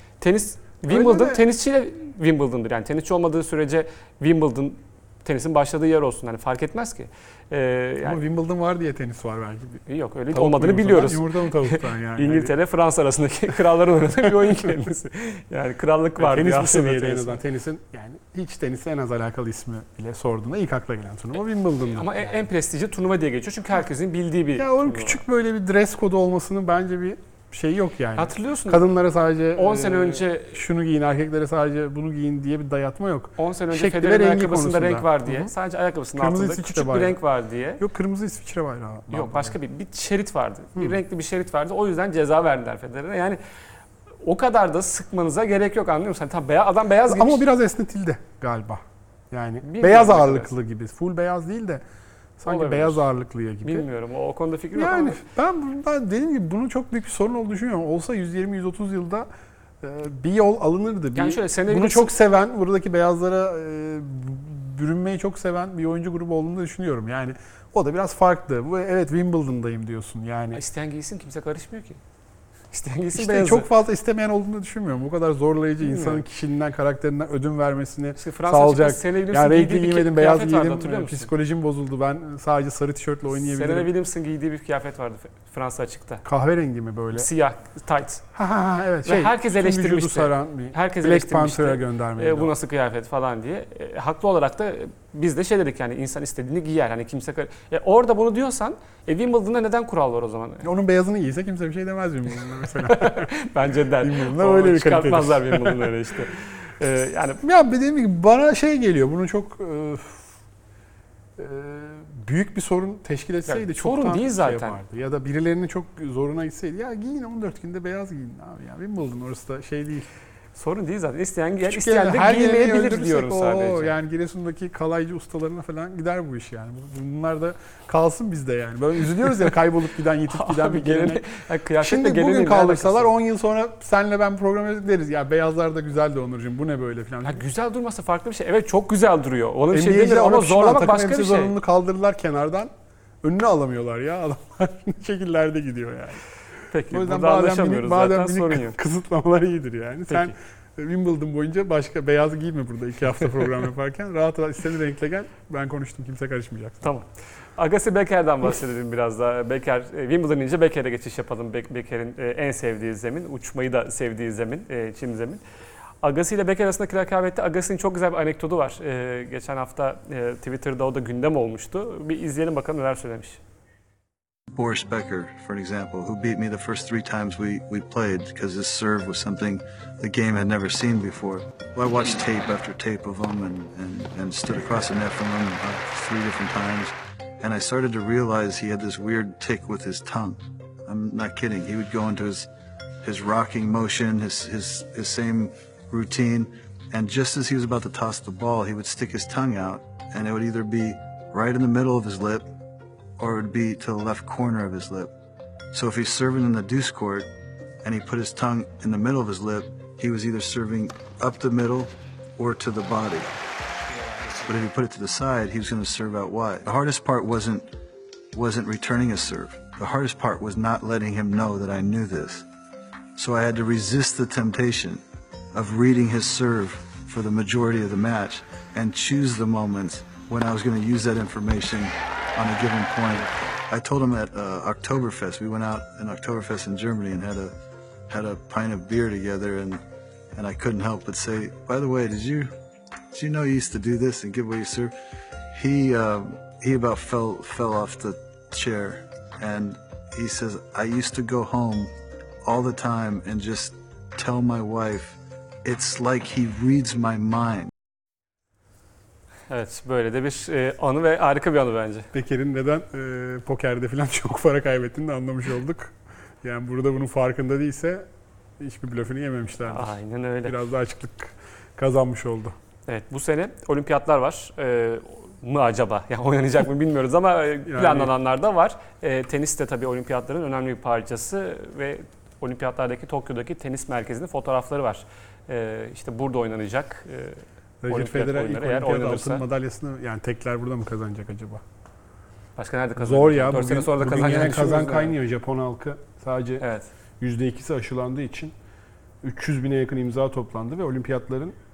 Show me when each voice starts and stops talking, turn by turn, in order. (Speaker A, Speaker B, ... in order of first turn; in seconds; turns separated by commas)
Speaker A: 0.2-8.2, Speaker B: 0.9-1.4, Speaker B: 8.0-12.5, Speaker A: 9.8-17.4, Speaker B: 16.2-22.4, Speaker A: 21.9-25.2, Speaker B: 24.6-35.5, Speaker A: 28.1-28.8, Speaker A: 29.5-30.6, Speaker A: 33.4-37.8, Speaker B: 36.2-37.2, Speaker B: 37.8-39.5, Speaker A: 39.1-43.4, Speaker A: 44.2-47.4, Speaker B: 47.1-51.8, Speaker A: 49.6-50.5, Speaker B: 52.4-53.9, Speaker A: 52.5-53.0, Speaker A: 53.6-55.2, Speaker B: 54.7-59.3, Speaker B: 59.8-70.6, Speaker A: 61.1-62.1, Speaker A: 70.5-72.0, Speaker A: 72.7-73.7, Speaker B: 73.1-83.9, Speaker A: 75.8-76.2, Speaker A: 78.2-81.3, Speaker A: 83.3-86.2, Speaker B: 86.2-87.3, Speaker A: 87.1-88.2, Speaker B: 88.3-92.5, Speaker A: 89.0-100.7, Speaker B: 100.6-103.3, Speaker A: 102.7-107.4, Speaker B: 104.0-106.0, Speaker B: 107.4-110.2, Speaker B: 111.4-120.1, Speaker A: 113.5-114.8, Speaker A: 120.5-123.9, Speaker B: 121.6-131.2, Speaker A: 130.3-133.1, Speaker B: 131.8-137.4, Speaker A: 137.2-141.5, Speaker B: 139.7-142.7, Speaker B: 143.2-146.2, Speaker A: 146.7-148.8, Speaker B: 146.9-156.8, Speaker A: 150.1-150.3, Speaker A: 156.8-165.4, Speaker A: 166.0-173.4, Speaker C: 174.5-192.5, Speaker C: 193.0-202.5, Speaker C: 203.2-205.1, Speaker C: 205.7-207.3, Speaker C: 207.8-213.3, Speaker C: 214.2-217.7, Speaker C: 218.3-222.5, Speaker C: 223.2-225.0, Speaker C: 225.5-237.5, Speaker C: 238.1-239.8, Speaker C: 240.3-242.5, Speaker C: 243.1-244.9, Speaker C: 245.5-251.9, Speaker C: 252.4-257.7, Speaker A: 259.5-262.1, Speaker B: 262.1-268.1, Speaker B: 268.6-272.5, Speaker A: 269.7-270.6, Speaker A: 272.9-289.4, Speaker B: 277.7-278.1, Speaker B: 287.8-291.6, Speaker A: 292.6-295.1, Speaker B: 293.0-296.6, Speaker A: 296.6-296.9, Speaker B: 297.2-298.5, Speaker B: 299.2-301.5